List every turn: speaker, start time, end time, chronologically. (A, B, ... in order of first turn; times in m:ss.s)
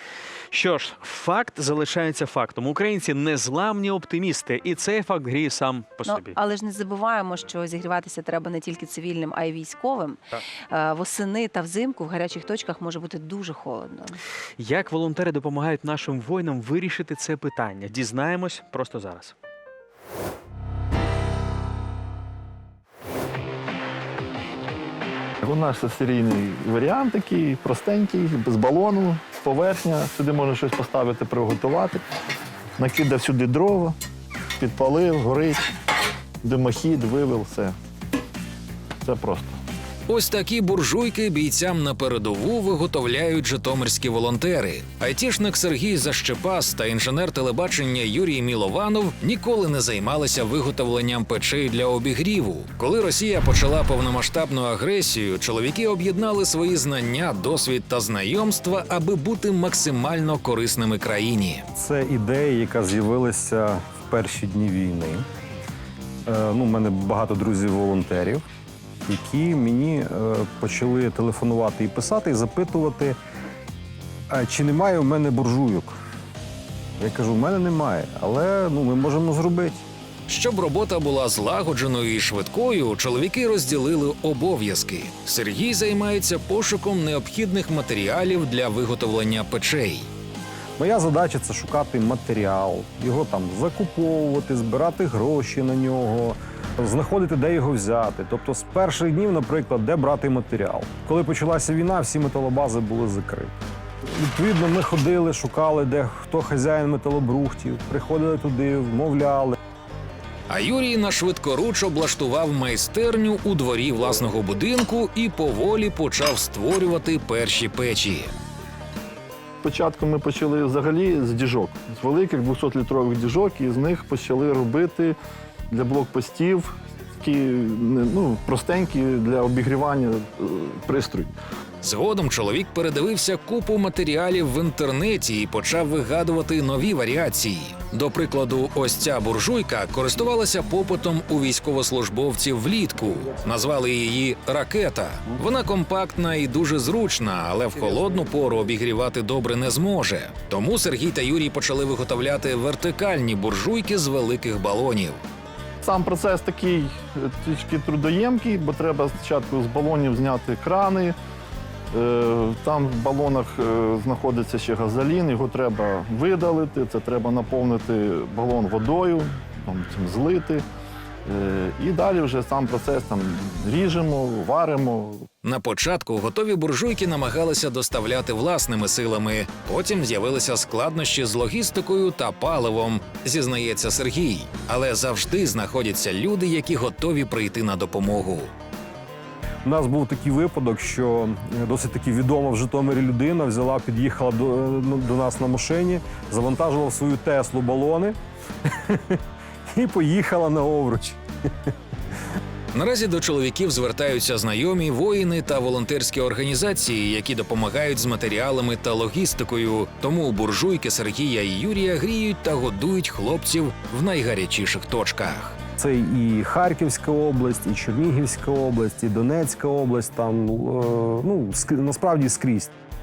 0:00.5-0:06.4 A
0:06.0-0:14.2 B
0:14.6-0:19.3 A
0:25.4-0:32.0 C
0:32.8-0:34.0 C
0:34.6-0:35.6 C
0:36.4-0:37.7 C
0:39.0-0:39.6 C
0:40.1-1:01.6 D
1:01.7-1:05.2 E
1:06.2-1:08.4 E
1:09.0-1:13.2 E
1:14.3-1:15.9 E
1:17.0-1:19.8 E
1:20.3-1:30.1 D
1:30.8-1:43.5 E
1:44.1-1:49.6 E
1:50.5-1:58.3 D
1:59.6-2:05.2 C
2:05.7-2:11.3 C
2:11.8-2:35.2 D
2:35.8-2:41.2 C
2:41.9-2:50.6 C
2:51.2-2:55.2 C
2:55.4-3:08.5 D
3:09.6-3:19.2 E
3:19.7-3:21.2 E
3:22.7-3:35.6 D
3:35.8-3:42.7 E